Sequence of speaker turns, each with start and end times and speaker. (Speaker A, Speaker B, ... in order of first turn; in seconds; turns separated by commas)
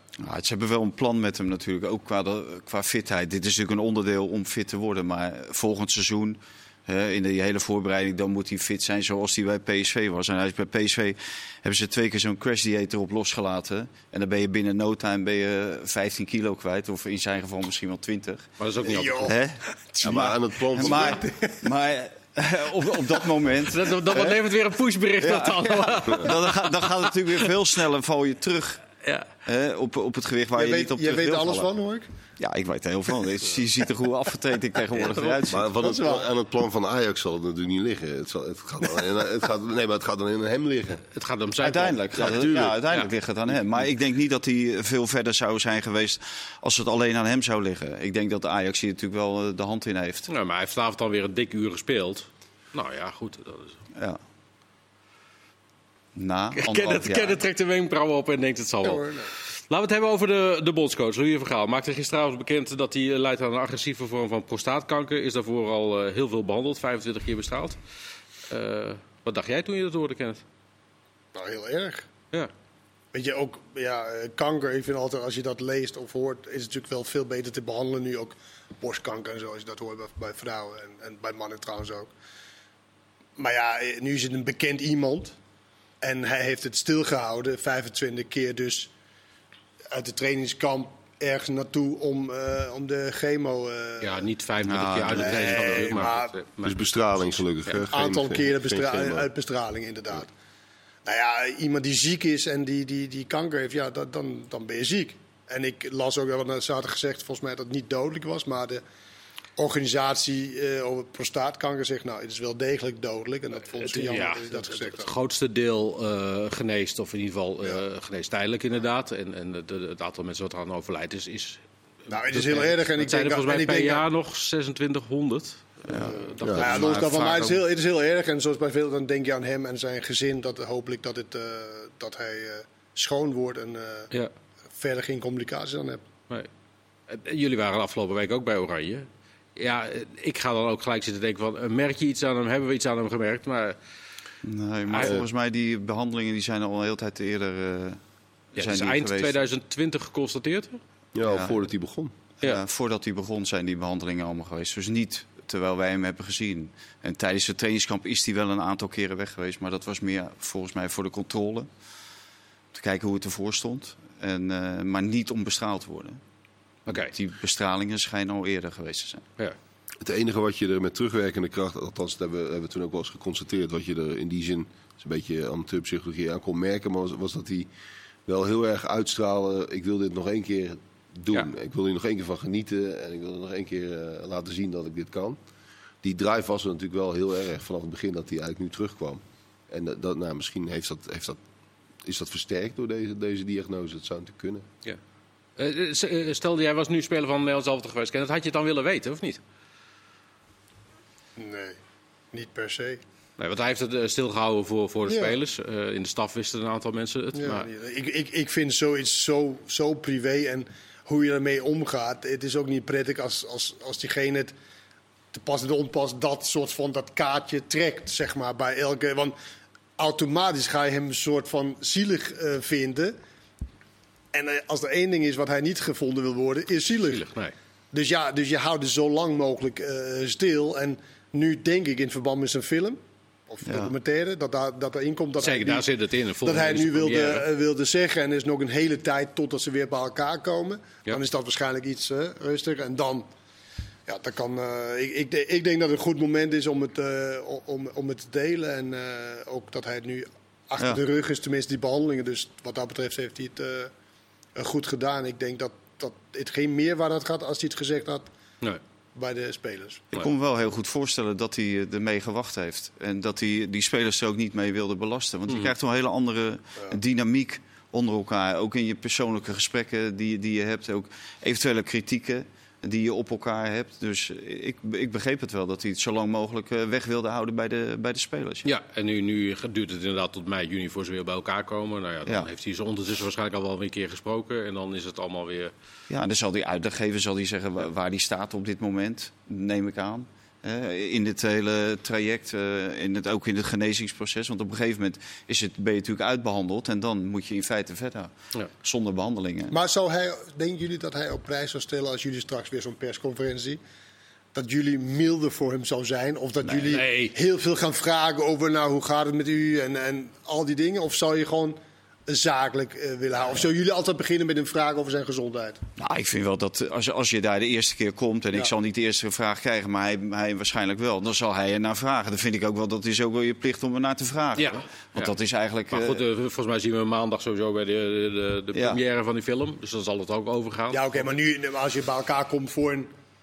Speaker A: 0.2-18.5, Speaker B: 18.6-19.4, Speaker C: 18.8-20.3, Speaker A: 19.2-24.4, Speaker D: 20.0-21.2, Speaker C: 20.8-21.6, Speaker B: 23.7-27.5, Speaker A: 25.2-28.8, Speaker A: 29.4-31.7, Speaker C: 30.6-32.0, Speaker A: 32.4-35.8, Speaker B: 35.0-35.4, Speaker D: 35.5-41.0, Speaker C: 35.8-36.2, Speaker B: 41.1-43.1, Speaker A: 41.6-50.3, Speaker D: 42.1-42.8, Speaker B: 50.3-53.8, Speaker A: 53.9-54.2, Speaker A: 56.1-57.4, Speaker B: 56.5-67.8, Speaker C: 58.8-59.3, Speaker B: 68.5-70.4, Speaker C: 71.3-72.1, Speaker C: 73.1-82.1, Speaker C: 83.4-85.3, Speaker C: 86.0-88.9, Speaker C: 89.9-94.2, Speaker B: 94.0-96.8, Speaker A: 94.6-95.8, Speaker C: 95.0-96.3, Speaker D: 96.6-99.3, Speaker C: 97.9-100.3, Speaker C: 101.0-108.8, Speaker C: 109.6-115.1, Speaker B: 113.8-121.6, Speaker C: 122.1-124.0, Speaker B: 122.2-126.6, Speaker A: 125.9-127.6, Speaker C: 126.1-134.1, Speaker D: 126.4-126.7, Speaker C: 134.8-136.0, Speaker B: 137.1-143.8, Speaker A: 144.4-148.0, Speaker B: 144.9-145.2, Speaker D: 145.0-145.2, Speaker B: 148.5-150.8, Speaker A: 148.6-149.3, Speaker D: 151.1-152.1, Speaker A: 151.2-151.5, Speaker A: 152.4-161.7, Speaker A: 162.7-166.2, Speaker B: 166.9-167.1, Speaker A: 166.9-169.2, Speaker D: 170.0-177.7, Speaker D: 178.2-185.4, Speaker D: 186.0-191.4, Speaker D: 192.0-194.7, Speaker B: 195.6-199.4, Speaker C: 201.4-201.8, Speaker C: 202.3-203.0, Speaker B: 203.4-207.7, Speaker C: 205.1-205.4, Speaker C: 207.3-214.5, Speaker C: 215.3-219.3, Speaker C: 220.0-223.2, Speaker C: 224.3-227.2, Speaker B: 227.1-227.5, Speaker C: 227.9-235.9, Speaker A: 233.7-233.9, Speaker B: 235.4-237.4, Speaker C: 236.4-243.3, Speaker C: 244.1-253.9, Speaker C: 254.6-258.3, Speaker C: 259.1-260.1, Speaker A: 260.1-278.7, Speaker B: 265.5-265.7, Speaker B: 278.6-285.7, Speaker A: 286.1-299.7, Speaker C: 299.7-303.8, Speaker C: 304.5-315.8, Speaker A: 306.7-307.0, Speaker B: 306.9-307.3, Speaker A: 316.0-326.2, Speaker B: 324.6-325.3, Speaker B: 325.9-331.2, Speaker A: 328.7-329.0, Speaker C: 330.9-333.1